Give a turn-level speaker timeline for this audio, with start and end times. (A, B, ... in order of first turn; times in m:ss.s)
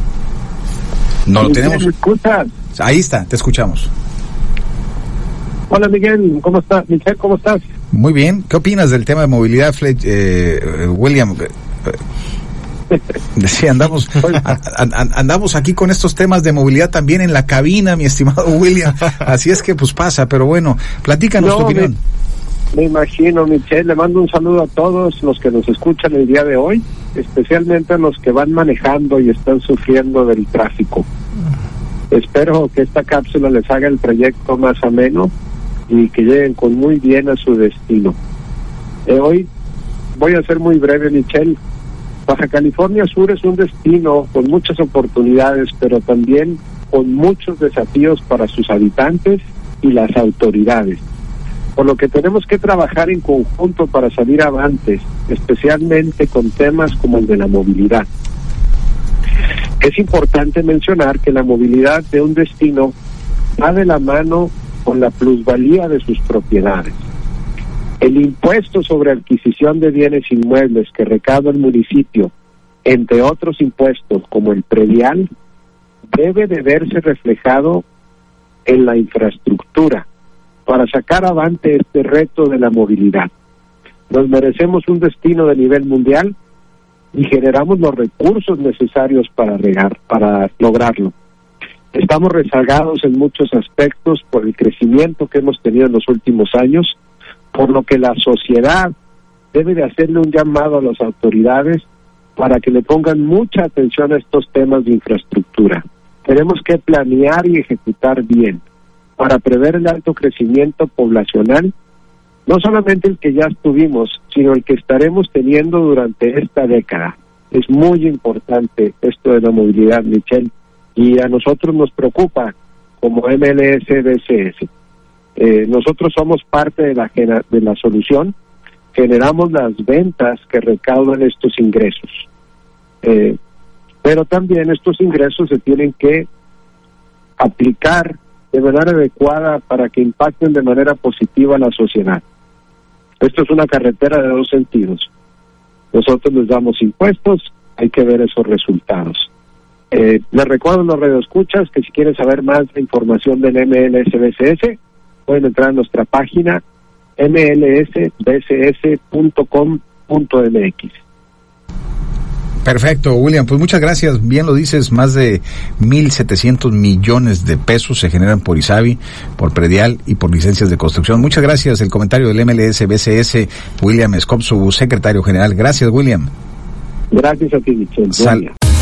0:01.3-0:01.9 A
0:01.4-0:02.5 B
0:02.8-0:03.9 A
0:05.7-0:07.6 B
0:07.9-0:12.0 A
0:13.4-0:22.0 A
0:21.4-0:21.9 B
0:22.7-0:31.1 B
0:32.1-0:35.3 B
0:35.9-0:38.2 B
0:39.1-0:39.5 B
0:40.2-0:41.6 B
0:42.3-0:51.0 B
0:51.8-0:58.1 B
0:59.8-1:03.0 B
1:03.6-1:07.0 B
1:08.0-1:12.3 B
1:12.8-1:15.3 B
1:16.1-1:17.8 B
1:18.7-1:20.1 B
1:20.7-1:23.3 B
1:24.1-1:26.4 B
1:27.1-1:31.1 B
1:31.9-1:37.0 B
1:37.5-1:38.9 B
1:39.5-1:41.8 B
1:42.4-1:48.6 B
1:49.2-1:51.7 B
1:52.5-2:04.7 B
2:05.4-2:08.3 B
2:08.9-2:12.3 B
2:13.0-2:13.4 B
2:14.0-2:16.3 B
2:17.4-2:22.2 B
2:23.2-2:25.1 B
2:25.9-2:29.3 B
2:29.9-2:36.6 B
2:37.2-2:41.0 B
2:42.6-2:56.3 A
2:57.1-2:58.5 B
2:58.1-2:58.4 A